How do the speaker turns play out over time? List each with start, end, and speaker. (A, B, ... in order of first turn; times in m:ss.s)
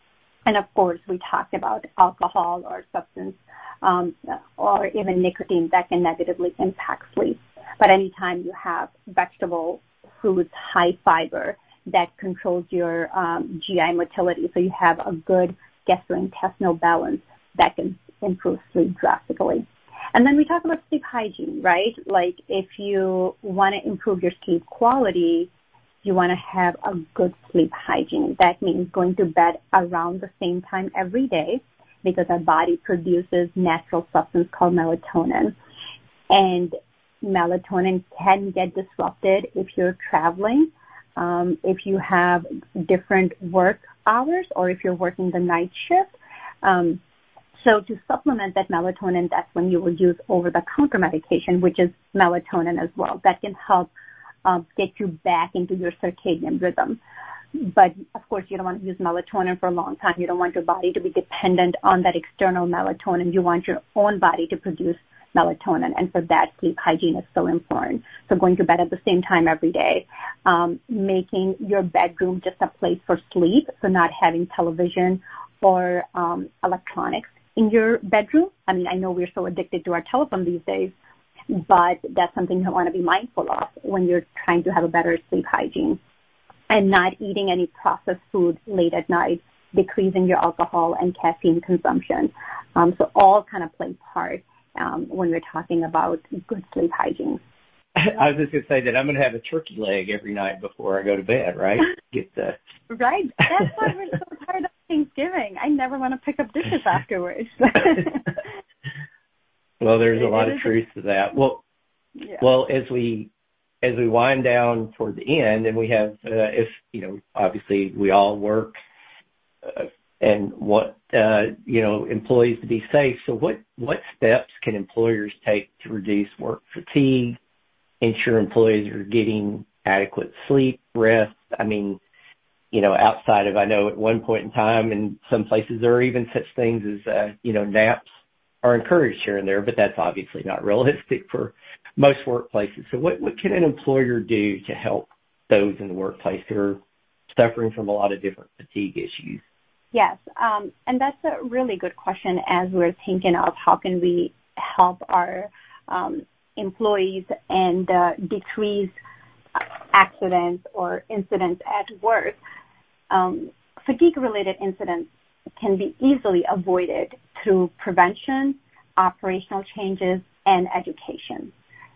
0:00.5-0:25.5 A
0:26.0-0:35.6 A
0:36.3-0:46.1 A
0:46.6-0:47.0 A
0:47.6-0:53.9 A
0:54.4-0:57.0 A
0:57.6-1:20.9 A
1:21.5-1:26.0 A
1:26.7-1:37.4 A
1:38.0-1:42.6 B
1:42.9-1:48.4 A
1:49.8-1:51.6 B
1:50.2-1:50.7 A
1:52.4-1:53.3 B
1:53.8-1:58.8 B
1:59.7-2:07.4 B
2:08.0-2:12.0 B
2:12.7-2:18.1 B
2:18.6-2:26.8 B
2:27.3-2:29.4 B
2:29.9-2:38.9 A
2:39.6-2:42.4 A
2:43.1-2:51.5 A